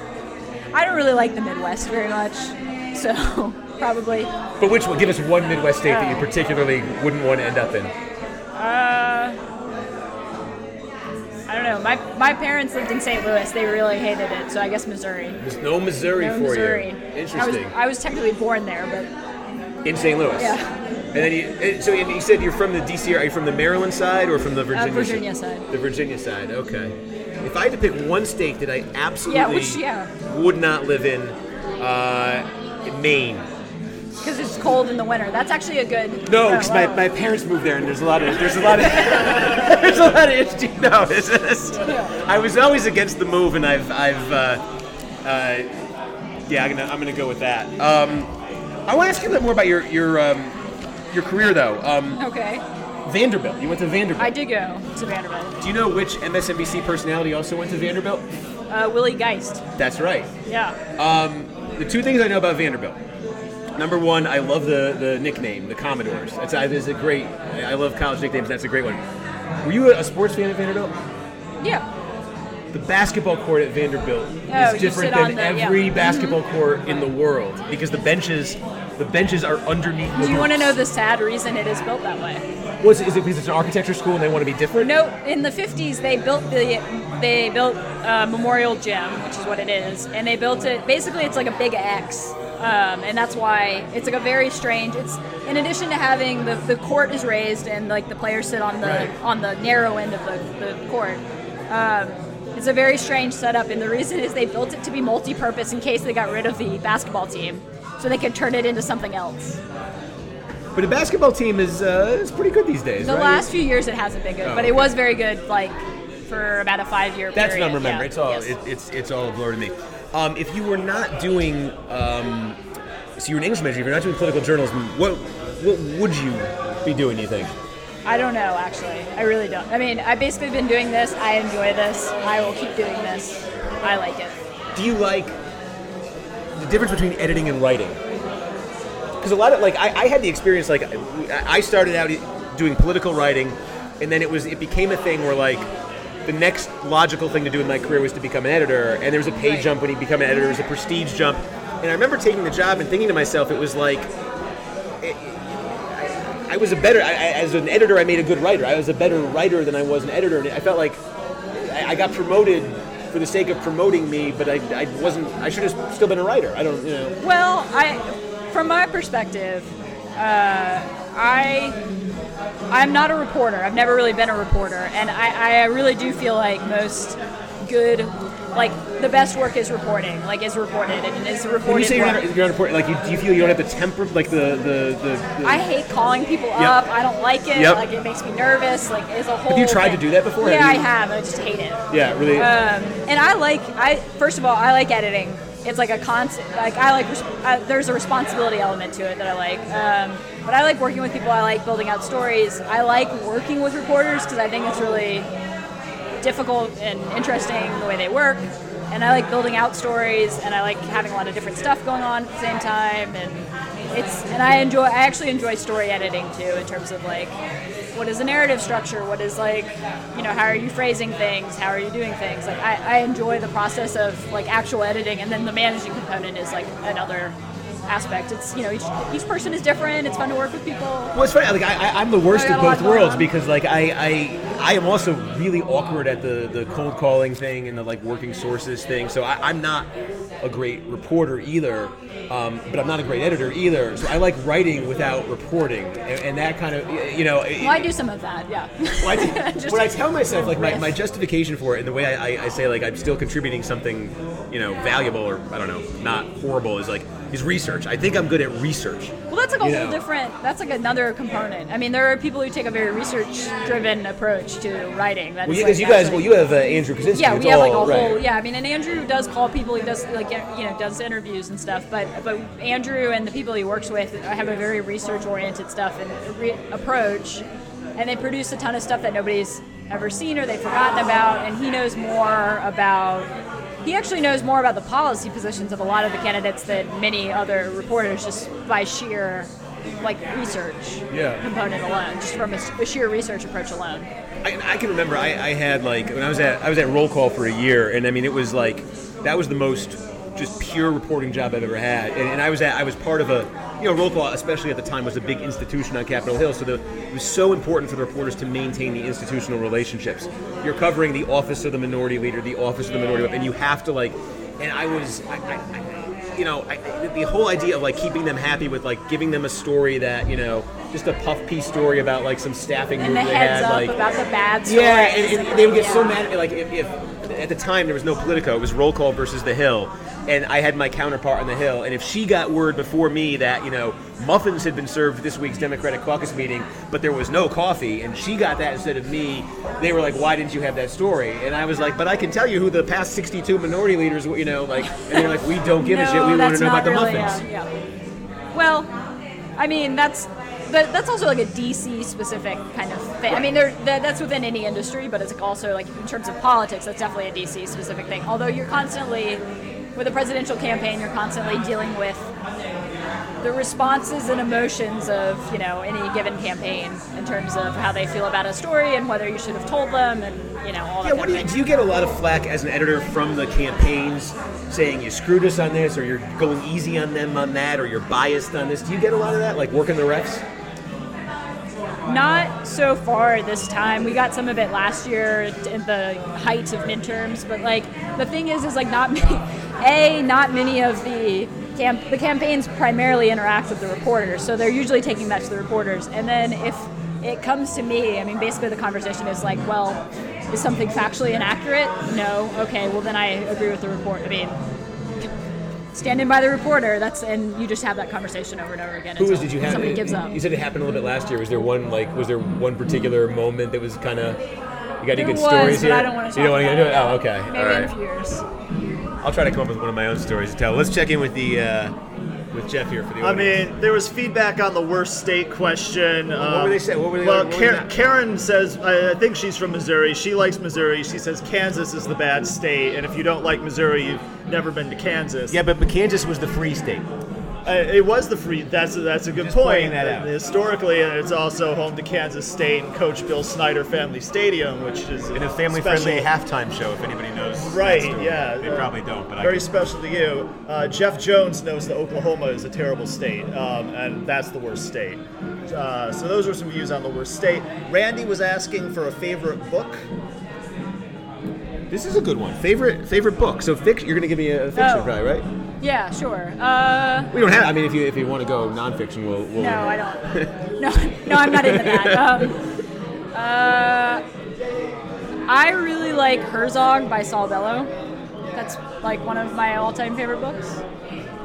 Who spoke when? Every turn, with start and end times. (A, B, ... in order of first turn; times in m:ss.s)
0:00.7-0:04.3 A
0:04.6-0:07.9 B
0:05.8-0:06.3 A
0:08.6-0:09.4 A
0:11.5-0:15.4 A
0:15.4-0:17.7 B
0:16.2-0:19.1 A
0:19.8-0:20.6 B
0:20.4-0:20.7 A
0:21.1-0:33.5 B
0:24.7-0:25.6 A
0:29.3-0:30.1 A
0:34.2-0:37.0 A
0:36.2-0:44.6 B
0:41.8-0:42.2 A
0:45.2-0:45.7 B
0:46.5-0:48.3 B
0:48.9-0:50.6 B
0:51.1-0:52.2 B
0:52.2-0:52.6 A
0:53.0-0:54.3 B
0:54.2-0:55.6 A
0:55.6-0:58.2 B
0:58.7-0:59.6 A
0:59.8-1:00.3 B
1:00.5-1:00.8 A
1:01.0-1:03.0 B
1:03.8-1:09.0 B
1:09.6-1:10.9 B
1:11.6-1:11.8 A
1:12.7-1:20.8 B
1:14.5-1:16.4 A
1:20.2-1:22.4 A
1:22.8-1:24.9 B
1:24.8-1:49.6 A
1:38.8-1:39.1 B
1:50.7-1:53.5 B
1:53.0-1:58.5 A
1:54.4-1:54.9 B
1:57.3-2:02.6 B
2:03.2-2:07.5 B
2:08.0-2:14.3 A
2:14.7-2:15.4 B
2:16.6-2:18.0 B
2:19.2-2:25.7 B
2:26.2-2:34.1 B
2:29.4-2:29.7 A
2:35.0-2:41.0 B
2:41.5-2:47.2 B
2:47.2-2:51.8 A
2:52.7-3:02.2 A
3:01.6-3:05.6 B
3:05.4-3:11.8 A
3:06.5-3:06.8 B
3:07.5-3:07.8 B
3:09.5-3:10.8 B
3:11.9-3:12.6 B
3:12.3-3:25.3 A
3:26.2-3:37.4 A
3:37.9-3:47.4 A
3:47.9-3:51.1 A
3:51.1-3:59.9 B
3:52.3-3:53.3 A
4:00.4-4:07.9 B
4:07.6-4:10.9 A
4:09.0-4:20.0 B
4:19.3-4:26.3 A
4:25.4-4:28.2 B
4:27.1-4:37.4 A
4:38.0-4:43.3 A
4:43.8-4:49.5 A
4:50.0-4:54.1 A
4:51.1-4:51.4 B
4:54.4-5:24.0 B
5:23.0-5:26.2 A
5:24.6-5:47.4 B
5:44.8-5:47.7 A
5:48.5-5:48.9 A
5:49.6-5:59.4 A
5:53.3-5:53.6 B
6:00.0-6:02.3 A
6:03.4-6:11.6 A
6:11.0-6:20.4 B
6:22.0-6:44.6 A
6:45.9-6:50.4 A
6:49.2-6:54.4 B
6:55.0-6:57.9 B
6:55.1-6:58.4 A
6:59.2-7:02.0 B
7:02.5-7:03.6 B
7:03.2-7:15.6 C
7:06.4-7:07.9 B
7:15.5-7:17.0 B
7:17.6-7:26.3 C
7:19.3-7:20.3 B
7:25.3-7:29.7 B
7:27.6-7:40.0 C
7:41.9-7:45.4 B
7:44.8-7:45.1 A
7:45.8-7:47.3 A
7:47.3-7:50.5 B
7:49.6-7:52.6 A
7:51.2-7:52.5 B
7:53.3-7:54.2 A
7:55.5-7:57.9 A
7:58.6-8:00.8 A